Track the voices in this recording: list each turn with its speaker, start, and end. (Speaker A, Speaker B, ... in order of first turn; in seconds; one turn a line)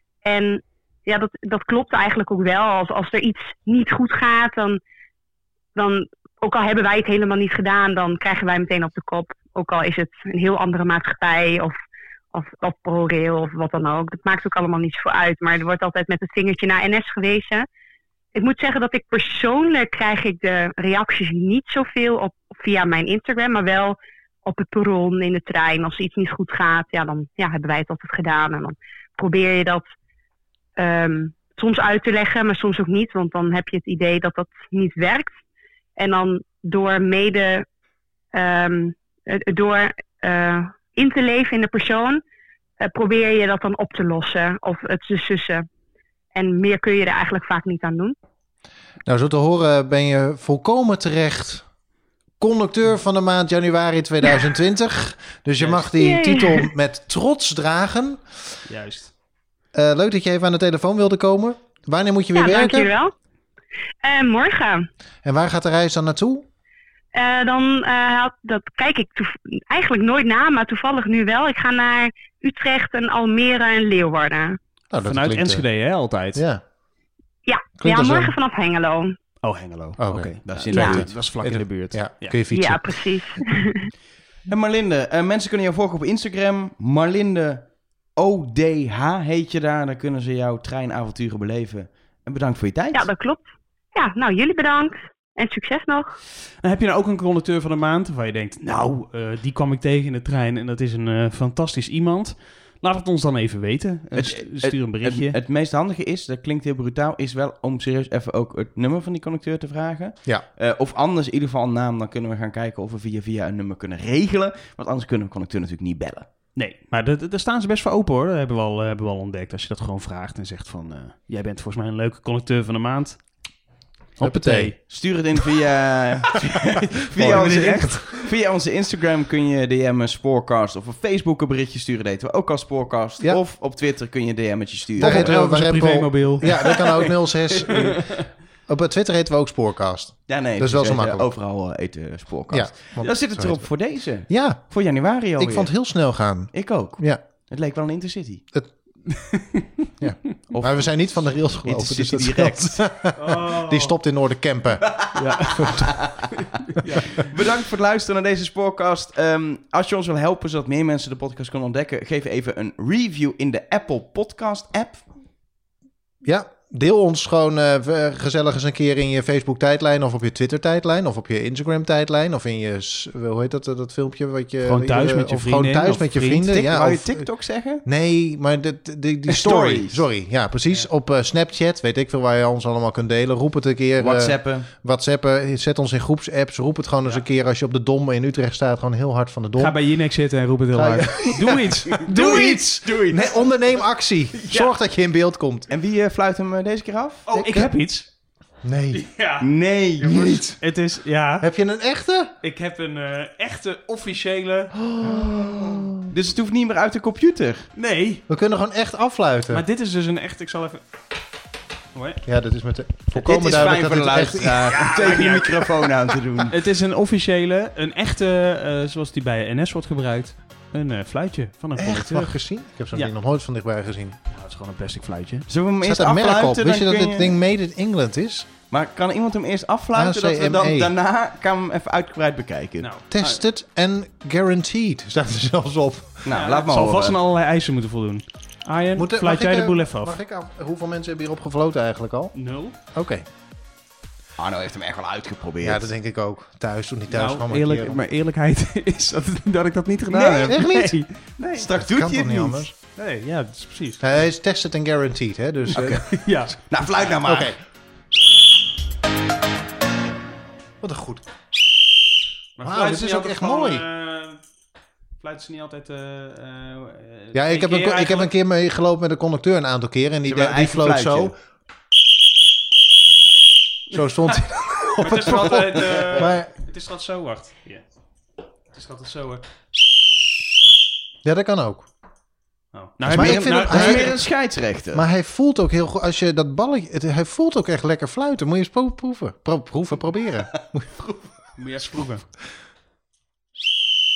Speaker A: 0.2-4.8
Speaker A: 5.7-11.7
Speaker A: 12.3-17.7
Speaker A: 18.3-29.9
Speaker A: 30.8-35.4
Speaker A: 36.0-37.6
Speaker A: 38.3-42.2
Speaker A: 42.8-45.6
Speaker A: 46.3-48.1
Speaker B: 49.0-51.6
Speaker B: 52.4-58.2
Speaker C: 55.6-55.8
Speaker A: 56.0-56.7
Speaker C: 58.6-59.1
Speaker B: 59.7-62.9
Speaker A: 62.3-63.1
Speaker A: 64.0-64.9
Speaker B: 65.2-66.5
Speaker A: 67.1-74.6
Speaker B: 74.9-75.6
Speaker C: 75.0-76.4
Speaker B: 76.3-76.6
Speaker A: 77.5-79.2
Speaker B: 77.8-78.3
Speaker C: 79.4-82.4
Speaker B: 80.0-83.1
Speaker D: 80.5-81.1
Speaker A: 80.7-81.0
Speaker A: 82.5-83.9
Speaker D: 84.5-93.1
Speaker A: 92.9-96.2
Speaker C: 96.6-105.3
Speaker D: 104.1-116.3
Speaker C: 116.5-123.2
Speaker C: 124.2-124.8
Speaker B: 124.2-124.7
Speaker D: 124.9-135.3
Speaker C: 127.2-128.2
Speaker B: 127.2-128.0
Speaker B: 135.0-141.3
Speaker C: 135.0-137.1
Speaker D: 136.4-137.9
Speaker D: 140.3-145.7
Speaker B: 142.5-143.7
Speaker B: 144.3-144.6
Speaker B: 145.4-147.2
Speaker D: 146.5-148.4
Speaker C: 149.1-149.9
Speaker B: 150.0-155.0
Speaker D: 150.5-152.8
Speaker C: 153.2-153.9
Speaker C: 155.1-155.9
Speaker B: 155.6-155.8
Speaker D: 155.7-156.1
Speaker C: 156.8-157.3
Speaker D: 157.1-165.1
Speaker B: 166.2-177.3
Speaker C: 174.6-176.5
Speaker D: 176.5-177.8
Speaker B: 177.8-189.8
Speaker D: 179.3-180.0
Speaker D: 184.0-184.7
Speaker C: 189.6-192.1
Speaker B: 190.7-195.7
Speaker D: 191.9-193.5
Speaker D: 195.7-197.2
Speaker C: 197.3-198.1
Speaker B: 197.3-197.7
Speaker B: 198.6-199.1
Speaker C: 198.9-199.5
Speaker D: 199.4-200.4
Speaker B: 200.0-200.6
Speaker C: 200.6-201.5
Speaker B: 201.4-202.3
Speaker C: 202.4-204.7
Speaker B: 204.7-206.1
Speaker D: 206.1-207.7
Speaker C: 207.8-208.2
Speaker B: 208.3-209.6
Speaker C: 209.5-210.8
Speaker C: 211.9-212.2
Speaker B: 212.2-214.7
Speaker D: 213.1-216.6
Speaker C: 214.7-215.9
Speaker C: 216.5-222.4
Speaker B: 221.8-224.2
Speaker C: 224.3-225.5
Speaker D: 225.5-227.3
Speaker B: 225.8-228.5
Speaker D: 228.7-232.9
Speaker B: 229.9-230.9
Speaker C: 232.8-233.4
Speaker B: 233.1-236.2
Speaker D: 236.2-237.2
Speaker C: 236.3-240.2
Speaker B: 238.9-242.3
Speaker C: 242.3-242.8
Speaker B: 242.9-243.2
Speaker D: 244.4-245.9
Speaker B: 245.6-248.0
Speaker C: 247.1-251.2
Speaker D: 250.1-250.6
Speaker B: 250.4-251.0
Speaker D: 251.4-252.6
Speaker B: 251.7-252.7
Speaker C: 253.0-254.0
Speaker B: 254.0-256.0
Speaker C: 255.7-256.6
Speaker D: 255.7-256.1
Speaker D: 256.6-257.5
Speaker B: 257.2-257.6
Speaker B: 260.8-261.2
Speaker C: 262.6-264.4
Speaker B: 262.6-263.9
Speaker C: 265.2-268.3
Speaker B: 267.3-271.3
Speaker D: 270.2-271.3
Speaker B: 273.9-276.5
Speaker C: 275.0-277.8
Speaker C: 278.7-279.4
Speaker B: 281.2-281.9
Speaker C: 282.7-284.1
Speaker B: 283.0-284.2
Speaker D: 283.1-285.1
Speaker B: 284.9-291.1
Speaker C: 291.6-292.2